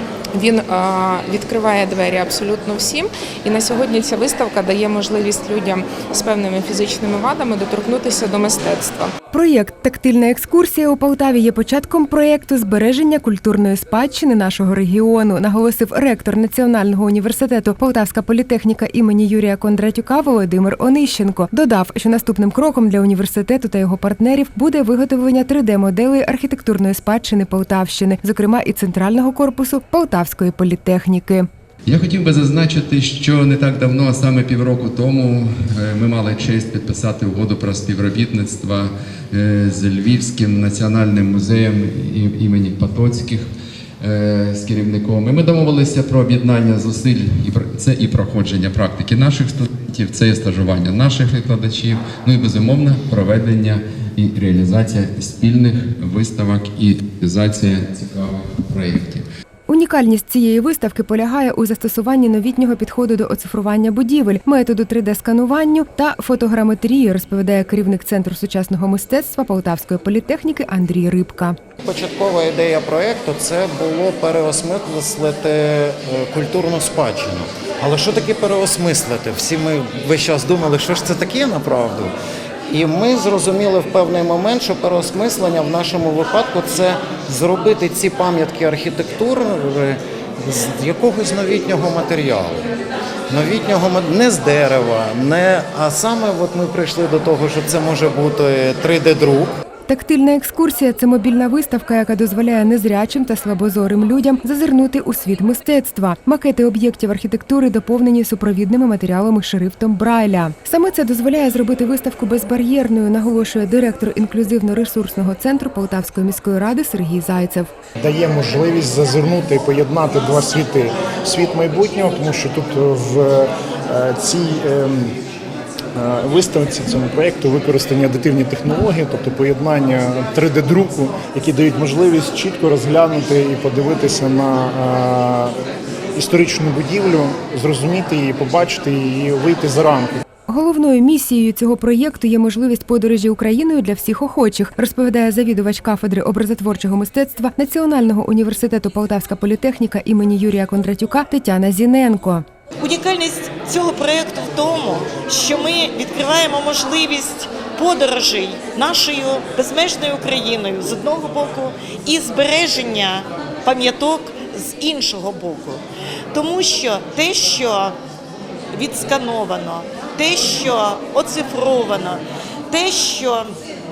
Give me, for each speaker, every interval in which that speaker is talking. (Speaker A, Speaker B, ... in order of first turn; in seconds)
Speaker A: 0.3-9.1
Speaker B: 9.3-31.5, 59.7-71.6, 99.9-117.7, 140.5-152.4
Speaker C: 31.9-43.4, 44.0-59.2
Speaker D: 71.8-82.2, 82.7-92.7, 93.3-99.5
Speaker E: 118.0-125.2, 126.0-135.6, 136.2-140.2
Speaker F: 152.8-168.0, 168.7-173.5